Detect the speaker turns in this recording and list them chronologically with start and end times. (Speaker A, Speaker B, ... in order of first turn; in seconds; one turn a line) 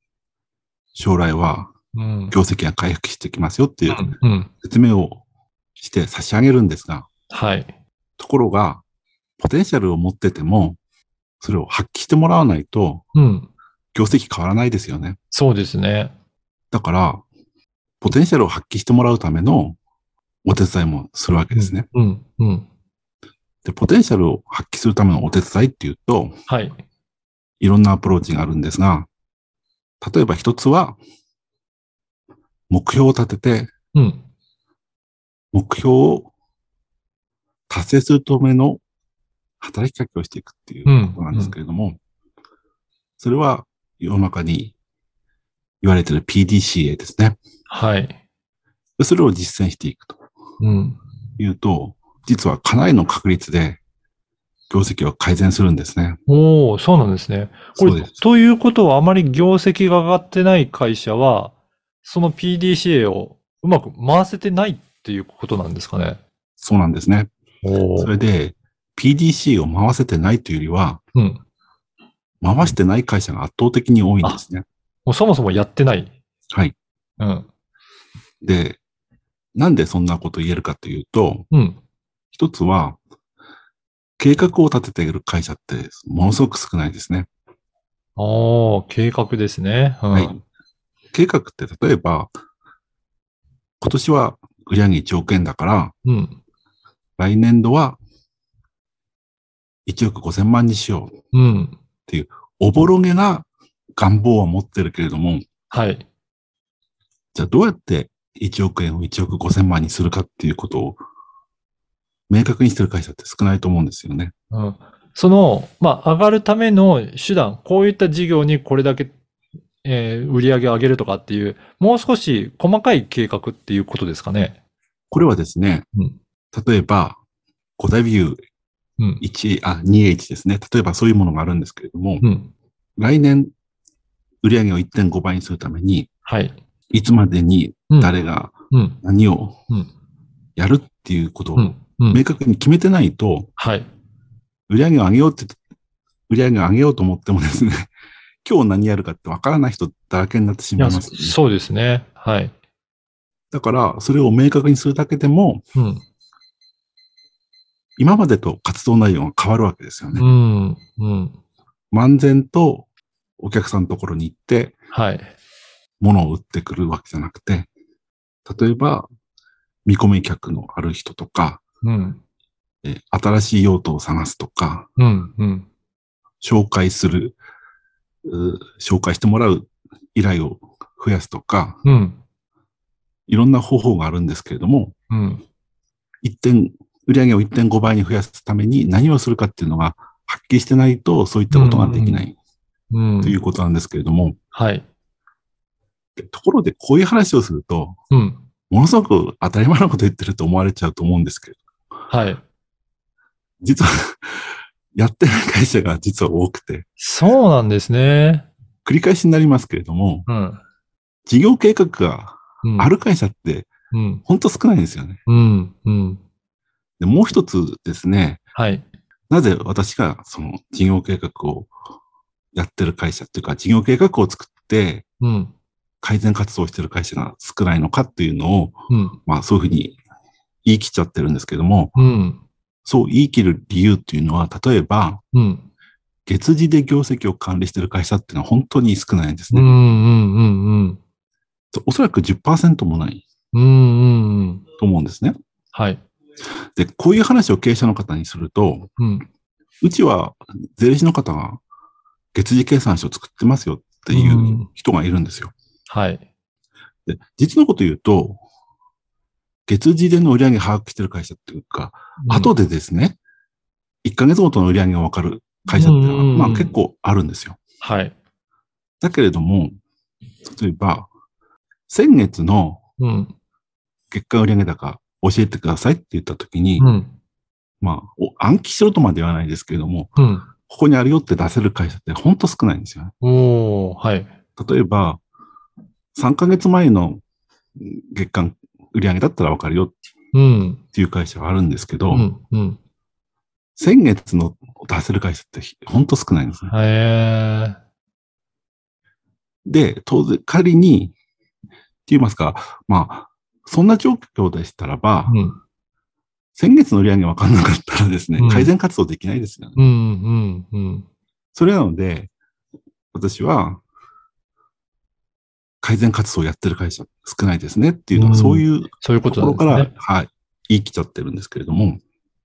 Speaker A: 0.9-1.7
Speaker B: 1.9-2.4
Speaker A: 2.3-4.1
Speaker B: 3.9-4.5
Speaker A: 4.6-5.2
Speaker A: 5.8-7.1
Speaker B: 7.3-7.7
Speaker A: 8.2-8.8
Speaker A: 9.4-10.8
Speaker A: 11.4-13.0
Speaker B: 13.1-13.5
Speaker A: 13.9-15.2
Speaker B: 15.3-16.1
Speaker A: 16.7-17.2
Speaker A: 18.0-19.8
Speaker A: 20.4-21.9
Speaker B: 21.5-22.6
Speaker A: 23.6-26.3
Speaker B: 26.5-26.8
Speaker A: 27.6-29.1
Speaker A: 30.0-31.0
Speaker A: 32.7-33.7
Speaker B: 33.9-34.2
Speaker A: 35.5-36.3
Speaker A: 37.7-38.8
Speaker A: 39.6-42.0
Speaker B: 40.9-41.5
Speaker A: 43.2-44.7
Speaker A: 45.8-47.4
Speaker B: 47.7-48.1
Speaker A: 49.0-50.2
Speaker B: 50.6-51.0
Speaker A: 51.4-53.8
Speaker A: 54.7-56.2
Speaker B: 56.3-66.2
Speaker A: 57.8-58.2
Speaker A: 66.6-67.3
Speaker B: 67.6-68.1
Speaker A: 68.0-71.0
Speaker B: 71.1-71.4
Speaker A: 72.4-74.6
Speaker B: 75.0-76.1
Speaker B: 77.2-77.5
Speaker A: 78.4-78.8
Speaker A: 79.5-81.5
Speaker B: 81.5-81.8
Speaker A: 82.3-83.0
Speaker A: 84.2-87.3
Speaker B: 88.2-90.3
Speaker A: 90.1-90.4
Speaker A: 91.1-92.4
Speaker A: 93.8-95.9
Speaker B: 96.0-96.4
Speaker A: 97.2-98.0
Speaker A: 99.8-101.1
Speaker B: 101.3-101.8
Speaker A: 102.1-105.5
Speaker B: 105.7-106.0
Speaker A: 107.3-111.0
Speaker A: 112.3-114.3
Speaker B: 114.5-119.1
Speaker B: 119.8-124.5
Speaker A: 125.1-125.8
Speaker A: 126.5-127.2
Speaker A: 127.8-128.4
Speaker A: 129.2-132.2
Speaker B: 132.2-132.5
Speaker A: 133.0-133.5
Speaker A: 134.4-136.1
Speaker B: 136.2-136.5
Speaker A: 136.9-139.6
Speaker B: 138.7-139.0
Speaker A: 140.6-143.5
Speaker B: 141.6-142.2
Speaker B: 143.6-143.9
Speaker A: 144.7-145.6
Speaker A: 146.3-147.9
Speaker A: 148.4-151.4
Speaker B: 150.8-152.5
Speaker A: 153.5-155.6
Speaker B: 155.7-156.0
Speaker A: 158.0-160.3
Speaker B: 160.1-161.3
Speaker A: 161.9-162.9
Speaker A: 163.4-164.8
Speaker B: 164.9-165.3
Speaker A: 166.0-167.7
Speaker A: 168.4-169.1
Speaker A: 169.8-171.6
Speaker B: 171.8-172.2
Speaker A: 172.8-174.9
Speaker B: 175.0-175.7
Speaker A: 176.4-177.4
Speaker A: 178.2-181.8
Speaker B: 181.8-182.2
Speaker A: 183.3-184.9
Speaker B: 185.1-185.4
Speaker A: 186.2-192.3
Speaker B: 191.5-192.3
Speaker B: 192.9-193.4
Speaker A: 193.2-194.4
Speaker B: 194.5-194.8
Speaker A: 196.2-198.0
Speaker B: 198.1-198.4
Speaker A: 198.7-201.6
Speaker B: 202.1-202.4
Speaker A: 203.6-206.8
Speaker B: 207.0-208.5
Speaker A: 208.8-210.3
Speaker B: 210.2-210.6
Speaker A: 211.2-213.7
Speaker B: 212.6-212.9
Speaker B: 213.9-214.2
Speaker A: 214.3-215.2
Speaker B: 215.3-216.2
Speaker A: 217.0-218.4
Speaker B: 218.5-218.9
Speaker A: 219.3-221.7
Speaker A: 222.5-225.0
Speaker B: 225.2-225.5
Speaker A: 226.0-230.0
Speaker B: 228.9-229.2
Speaker A: 230.6-231.9
Speaker B: 231.9-232.4
Speaker A: 232.8-235.2
Speaker B: 235.3-235.7
Speaker A: 236.3-239.7
Speaker B: 239.5-241.0
Speaker A: 241.7-243.2
Speaker B: 243.5-244.6
Speaker A: 244.8-245.3
Speaker B: 245.7-246.0
Speaker A: 246.7-248.9
Speaker B: 249.0-249.2
Speaker A: 249.8-251.6
Speaker A: 252.3-255.5
Speaker B: 254.1-254.7
Speaker B: 255.9-256.2
Speaker A: 257.1-258.4
Speaker A: 259.7-263.2
Speaker B: 262.2-262.5
Speaker A: 264.0-267.6
Speaker B: 265.7-266.7
Speaker B: 267.8-268.1
Speaker A: 269.0-269.8
Speaker A: 270.5-271.1
Speaker A: 271.9-272.8
Speaker B: 273.0-273.3
Speaker A: 274.1-276.9
Speaker B: 276.8-277.1
Speaker A: 277.8-280.1
Speaker B: 280.2-280.4
Speaker A: 280.7-283.1
Speaker B: 283.2-284.3
Speaker A: 284.6-285.2
Speaker A: 286.1-287.2
Speaker A: 287.8-289.9
Speaker B: 290.3-290.8
Speaker A: 290.9-292.3
Speaker B: 292.1-292.8
Speaker A: 293.8-296.7
Speaker B: 296.7-297.8
Speaker A: 299.6-301.1
Speaker A: 302.1-305.4
Speaker B: 305.3-305.6
Speaker A: 306.5-309.8
Speaker B: 308.4-308.7
Speaker B: 309.8-311.0
Speaker A: 311.5-312.3
Speaker A: 313.1-313.8
Speaker A: 315.8-322.0
Speaker B: 318.1-319.9